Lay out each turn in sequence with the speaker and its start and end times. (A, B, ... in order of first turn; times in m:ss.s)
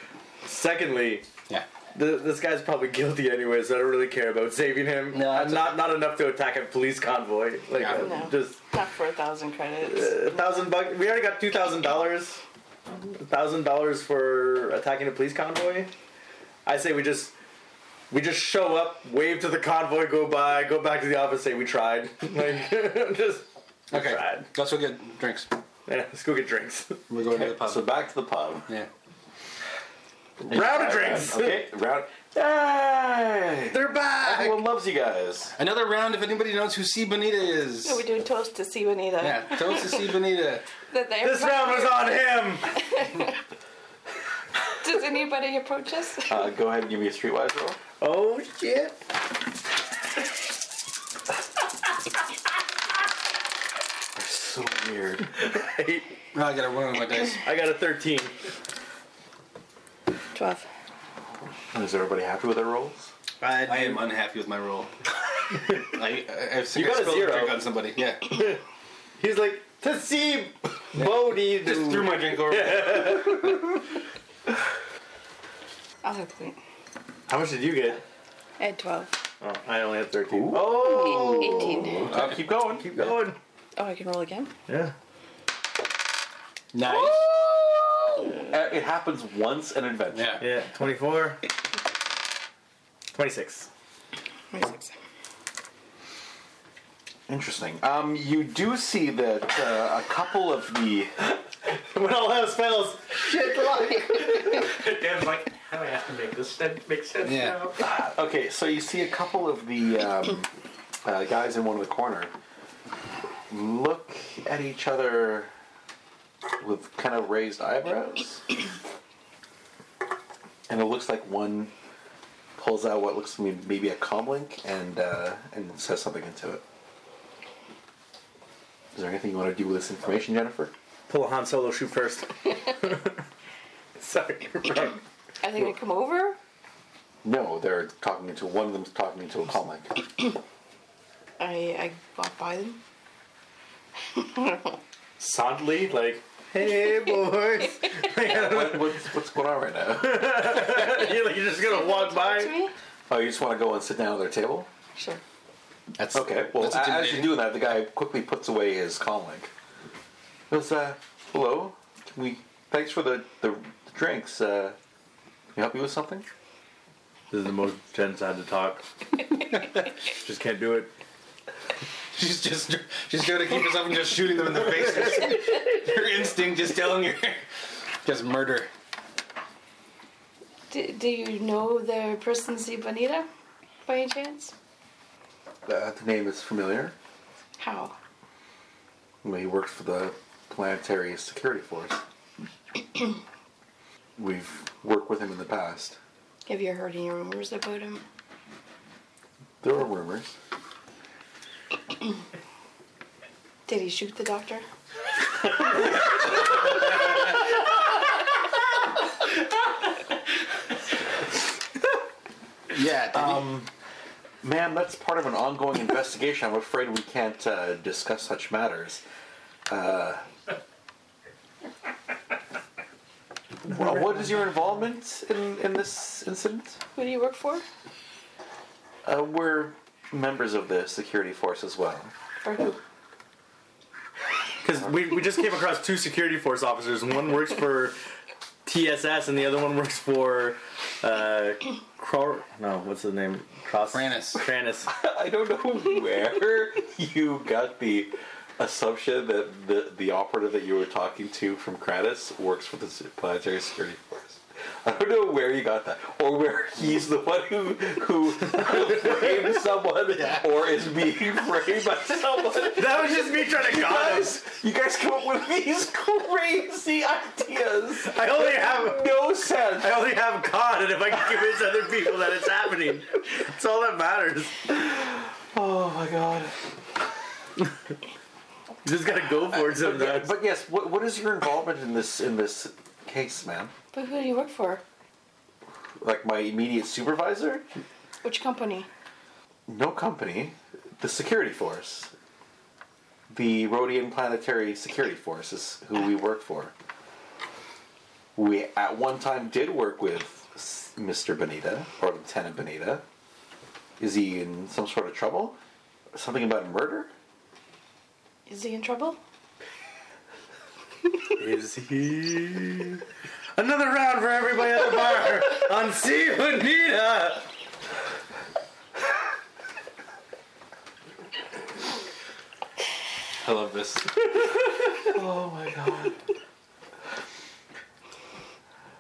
0:00.4-0:01.3 A
0:02.0-0:08.6 A
0:05.1-0:05.8 B
0:07.8-0:08.1 B
0:08.0-0:10.3 C
0:09.8-0:12.4 A
0:12.9-0:15.9 A
0:16.7-0:17.3 A
0:18.1-0:24.5 A
0:23.9-0:25.5 B
0:25.9-0:27.0 A
0:27.1-0:27.9 B
0:27.3-0:28.7 D
0:30.4-0:31.7 A
0:30.5-0:35.5 D
0:33.7-0:34.7 A
0:35.6-0:38.0 B
0:37.8-0:40.1 C
0:39.2-0:40.6 B
0:40.9-0:43.4 C
0:41.2-0:42.7 A
0:44.8-0:46.4 C
0:46.3-0:47.8 D
0:48.0-0:49.0 A
0:54.2-0:55.4 D
0:55.4-0:56.1 A
0:56.3-0:57.4 B
0:57.4-0:58.3 A
1:00.3-1:00.6 C
1:01.7-1:03.1 D
1:03.4-1:04.0 A
1:03.6-1:04.9 B
1:05.7-1:08.5 B
1:06.7-1:07.6 A
1:08.3-1:08.6 A
1:09.2-1:13.7 A
1:11.0-1:13.4 B
1:16.0-1:16.6 C
1:17.3-1:18.0 A
1:18.6-1:19.1 C
1:19.4-1:21.0 A
1:20.3-1:23.0 D
1:20.7-1:22.1 C
1:22.1-1:22.4 B
1:22.7-1:23.4 A
1:23.8-1:24.5 C
1:24.7-1:24.9 A
1:26.7-1:27.2 B
1:26.9-1:30.4 D
1:30.1-1:30.4 B
1:30.4-1:31.4 A
1:33.1-1:33.7 A
1:34.5-1:34.9 C
1:37.3-1:41.1 D
1:41.6-1:44.7 A
1:44.3-1:47.9 E
1:47.2-1:47.6 B
1:47.8-1:50.5 D
1:51.0-1:52.3 D
1:53.5-1:55.5 D
1:56.6-1:58.5 D
2:00.7-2:01.7 D
2:02.6-2:06.6 D
2:09.0-2:10.7 D
2:11.1-2:13.1 A
2:14.0-2:15.0 A
2:15.4-2:16.4 C
2:17.2-2:20.1 D
2:21.4-2:22.8 C
2:24.2-2:24.8 C
2:25.2-2:29.0 A
2:28.2-2:30.7 D
2:30.0-2:32.6 A
2:31.6-2:32.7 C
2:33.1-2:34.7 D
2:35.0-2:35.2 C
2:36.0-2:37.6 B
2:36.1-2:39.5 D
2:40.5-2:44.8 D
2:45.6-2:46.3 D
2:47.3-2:48.8 A
2:50.1-2:50.9 A
2:52.1-2:57.4 B
2:58.0-2:58.7 B
3:00.7-3:03.3 C
3:03.8-3:04.5 C
3:05.7-3:07.0 D
3:07.6-3:08.0 C
3:09.2-3:12.0 D
3:14.2-3:16.0 D
3:16.5-3:18.0 C
3:19.6-3:20.4 D
3:23.7-3:24.6 C
3:32.7-3:33.6 B
3:33.1-3:33.7 D
3:34.4-3:39.0 D
3:39.7-3:40.3 D
3:43.6-3:46.8 D
3:47.0-3:47.6 C
3:49.0-3:52.1 D
3:52.4-3:52.8 C
3:54.6-3:58.0 A
3:58.7-4:04.9 A
4:03.9-4:04.4 B
4:04.9-4:14.0 D
4:14.8-4:30.0 D
4:22.7-4:24.4 A
4:28.0-4:29.2 A
4:29.8-4:34.6 A
4:34.7-4:36.6 D
4:38.8-4:40.4 A
4:39.5-4:43.7 D
4:43.9-4:44.8 C
4:46.0-4:47.6 D
4:48.2-4:48.9 C
4:49.7-4:52.1 D
4:53.3-4:56.7 D
4:58.4-5:03.0 D
5:04.0-5:05.6 D
5:06.1-5:07.1 D
5:08.5-5:09.2 C
5:11.4-5:13.0 A
5:13.6-5:17.5 A
5:23.4-5:24.1 B
5:25.1-5:26.2 D